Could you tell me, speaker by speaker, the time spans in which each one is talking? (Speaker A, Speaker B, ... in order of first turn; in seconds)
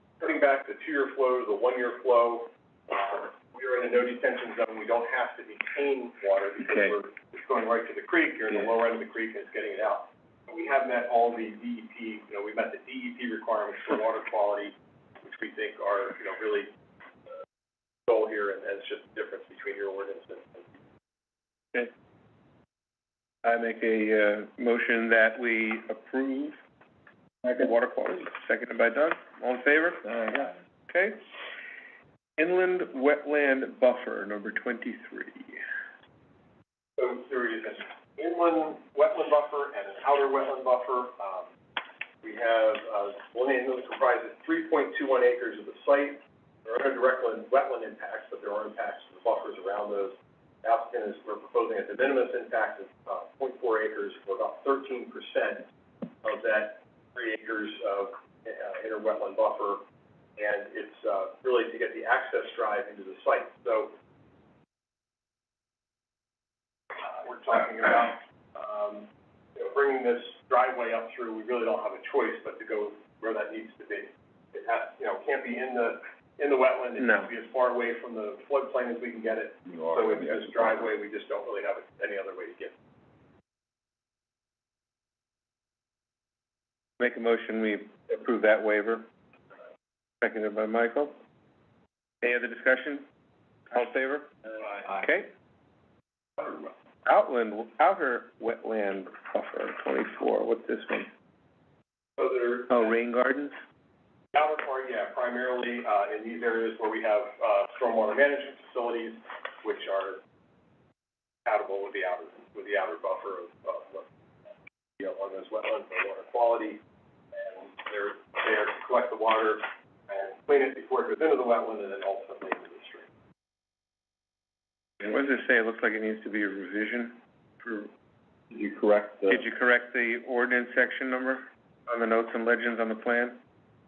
Speaker A: 0.2-16.7, 18.1-20.7, 37.0-41.5, 42.2-55.7, 56.2-59.8, 60.4-63.9, 66.9-82.7, 94.6-94.9, 96.4-96.7, 102.2-103.0, 104.3-110.2, 111.4-114.1, 115.0-116.8, 117.3-123.0
Speaker B: 6.6-7.0, 23.4-26.6, 27.4-31.2, 32.4-35.6, 77.0-77.3, 87.0-89.1, 90.2-91.2, 92.2-93.0, 93.7-94.3, 94.9-95.3, 97.0-101.1, 102.7-103.5, 125.0-127.9, 129.3-133.4
Speaker C: 79.7-80.9, 128.5-129.4